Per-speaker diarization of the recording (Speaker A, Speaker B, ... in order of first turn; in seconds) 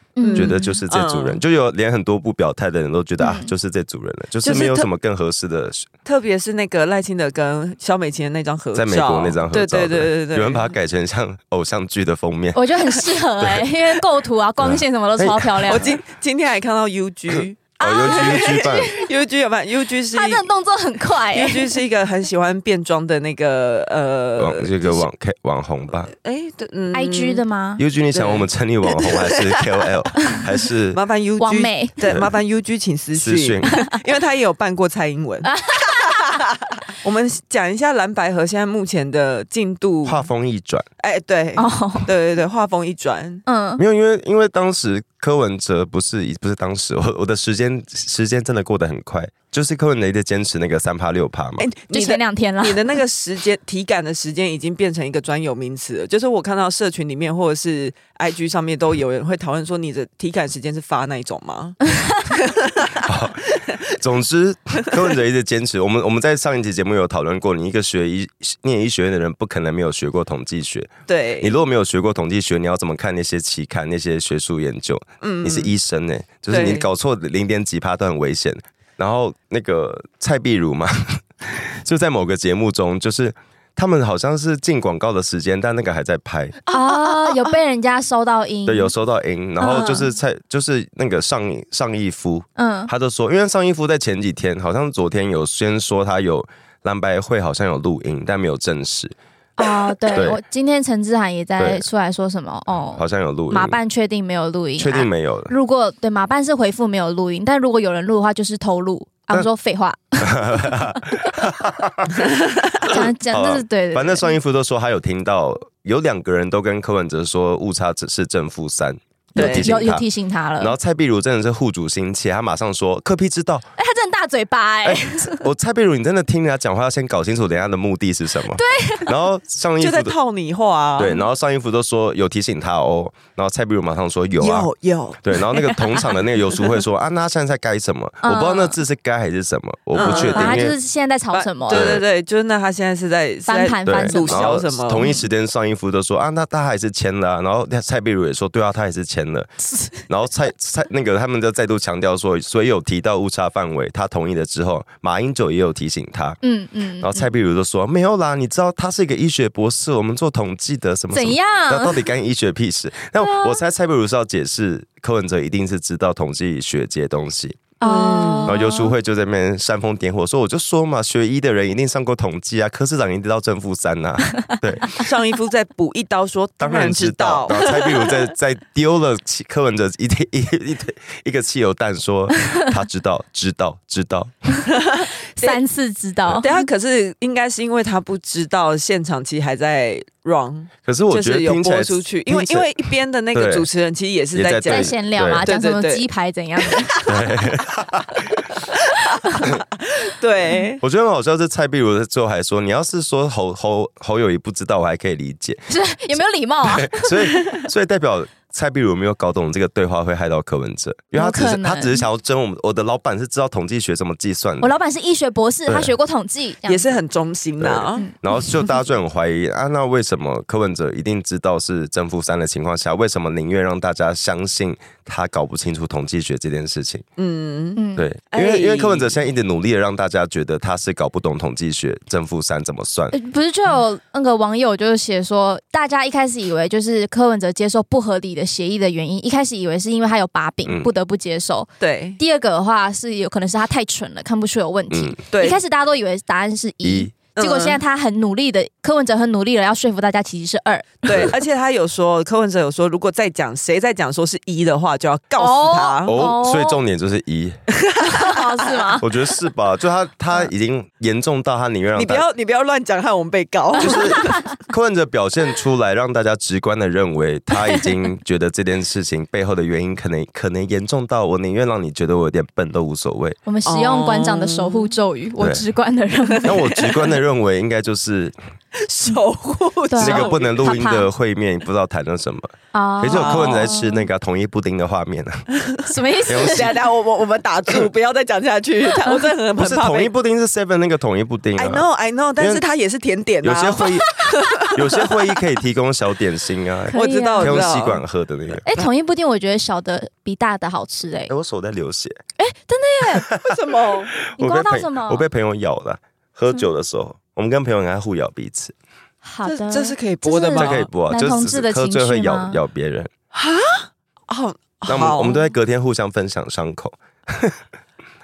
Speaker A: 0.2-0.8, 3.2-3.5, 12.5-16.0, 17.8-19.1, 20.1-21.8, 26.9-27.8, 31.4-32.0, 33.7-34.0, 35.4-36.4, 41.6-42.1, 43.5-43.8, 51.9-53.0, 61.8-62.3, 86.7-88.9, 89.6-90.1, 92.6-92.9, 99.6-111.4, 112.8-114.4, 119.4-120.8, 123.8-125.5, 128.6-129.1, 138.2-138.8, 140.0-141.9, 143.5-145.2, 156.4-157.3, 161.1-162.1, 163.2-163.6, 167.8-168.9, 185.4-186.6, 194.7-197.1, 205.7-207.6, 211.1-212.0, 214.6-217.0, 227.8-228.1, 233.1-251.3, 255.4-256.8, 258.0-259.1, 263.8-264.5, 273.5-276.6, 279.9-281.1, 282.7-284.1, 285.9-286.8, 289.0-289.3, 296.9-297.7, 298.6-301.3, 302.4-303.3, 304.4-305.3, 309.2-312.6
Speaker B: 0.2-1.4, 4.4-4.9, 6.0-10.7, 15.7-20.4, 21.3-25.1, 26.2-27.4, 28.1-29.7, 30.9-40.3, 41.0-43.4, 51.6-61.8, 62.3-63.8, 71.1-71.5, 75.2-75.7, 76.5-76.9, 86.7-87.6, 89.7-90.0, 112.2-112.9, 119.4-119.7, 129.8-131.2, 134.4-136.7, 140.0-140.7, 141.3-145.1, 167.8-168.6, 175.0-178.2, 184.7-185.6, 186.4-196.1, 196.6-197.2, 198.7-200.8, 216.7-218.1, 227.2-229.2, 241.8-242.2, 245.3-245.6, 247.3-247.8, 251.0-256.2, 257.8-258.9, 262.0-264.4, 273.7-274.9, 276.2-277.1, 278.8-280.8, 283.1-283.7, 285.6-290.1, 291.6-295.4, 296.9-298.0, 303.4-304.2, 309.5-310.9, 313.3-315.4
Speaker C: 0.3-5.9, 8.7-13.7, 14.6-15.9, 17.3-19.0, 24.4-26.1, 27.8-31.0, 33.1-33.7, 40.0-40.9, 43.8-51.7, 63.0-86.6, 88.7-99.2, 100.1-100.4, 101.6-101.8, 103.0-103.8, 104.8-105.5, 110.2-112.2, 112.9-120.0, 120.6-123.7, 124.8-130.2, 131.0-140.8, 141.7-142.0, 143.9-149.5, 150.1-156.4, 157.0-167.7, 168.4-175.0, 176.6-184.3, 190.8-193.7, 194.3-195.5, 197.1-198.4, 200.8-205.7, 206.6-214.7, 215.7-215.9, 217.6-227.1, 228.0-233.1, 240.7-240.9, 244.9-245.2, 246.8-247.1, 256.1-257.6, 259.0-262.2, 263.8-273.4, 275.4-275.6, 276.4-278.4, 280.0-285.4, 286.3-286.8, 289.6-291.9, 292.4-292.6, 293.4-294.1, 294.7-298.8, 301.3-302.2, 303.1-303.6, 304.3-308.7, 310.6-313.1, 314.9-317.6